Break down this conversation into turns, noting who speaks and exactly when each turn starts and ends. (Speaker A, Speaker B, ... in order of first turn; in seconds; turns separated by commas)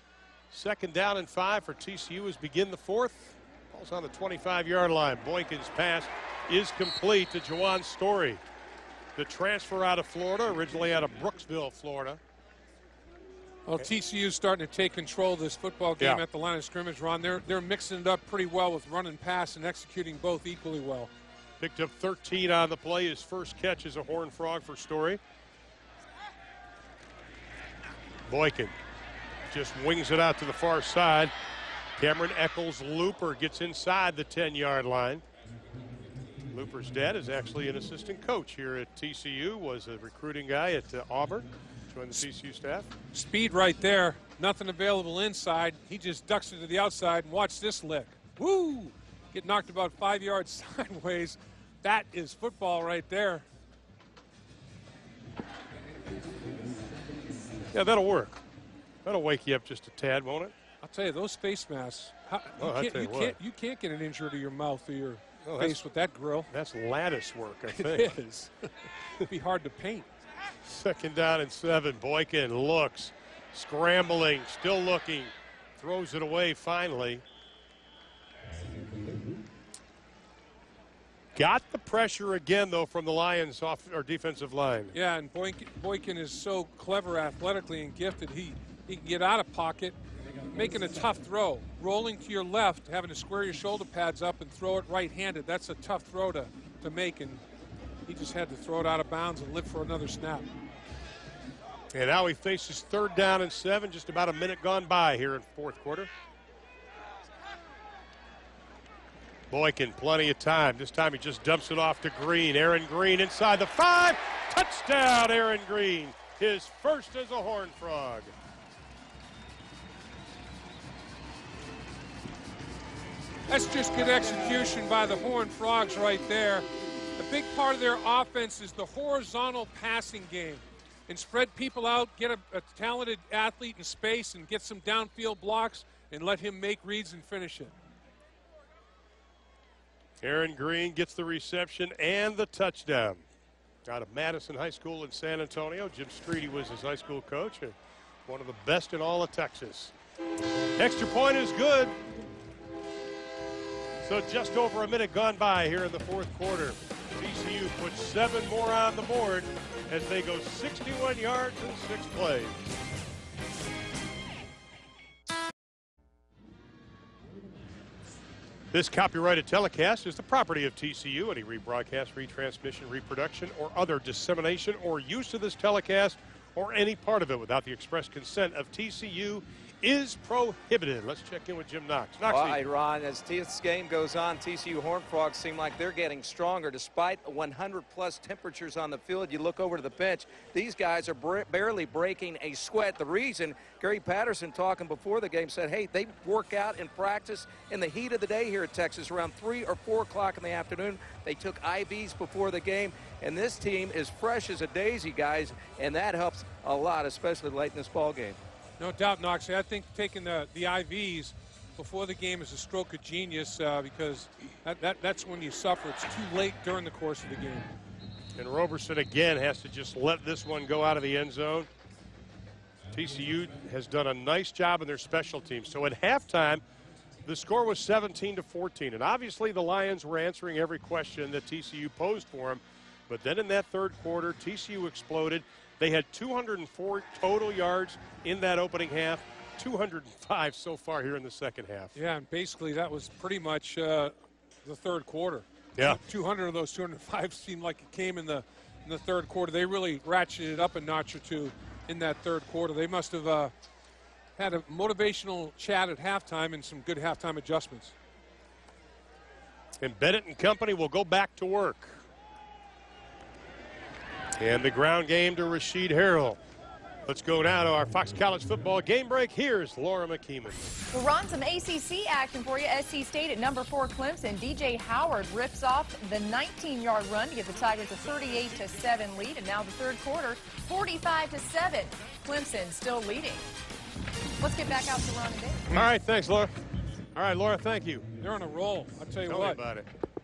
Speaker A: 0.5-8.4, Speaker A: 9.2-12.2, Speaker B: 13.7-21.1, Speaker A: 21.6-25.2, Speaker A: 28.3-28.8, Speaker A: 29.5-31.3, Speaker A: 32.0-35.2, Speaker A: 36.5-42.9, Speaker B: 43.1-53.4, Speaker A: 57.7-58.4, Speaker A: 59.0-60.5, Speaker B: 60.8-66.5, Speaker A: 62.6-63.4, Speaker A: 65.4-65.8, Speaker A: 66.5-68.2, Speaker B: 67.7-70.1, Speaker A: 70.6-77.2, Speaker A: 81.3-84.9, Speaker B: 84.9-90.0, Speaker B: 90.5-97.4, Speaker B: 98.1-100.5, Speaker A: 101.9-106.1, Speaker A: 109.5-118.3, Speaker B: 123.5-137.7, Speaker A: 140.2-143.2, Speaker A: 143.9-149.9, Speaker A: 150.8-152.0, Speaker A: 154.0-162.8, Speaker A: 168.7-182.6, Speaker C: 182.3-208.4, Speaker B: 208.8-217.7, Speaker A: 218.4-221.7, Speaker A: 222.9-226.6, Speaker A: 227.2-241.9, Speaker B: 241.9-253.5, Speaker B: 254.4-257.9, Speaker A: 259.8-262.0, Speaker A: 264.4-266.4, Speaker A: 267.1-270.7, Speaker D: 270.9-283.5, Speaker D: 284.4-285.6, Speaker A: 285.7-286.6, Speaker A: 287.1-288.1, Speaker B: 288.2-289.6, Speaker A: 289.3-289.9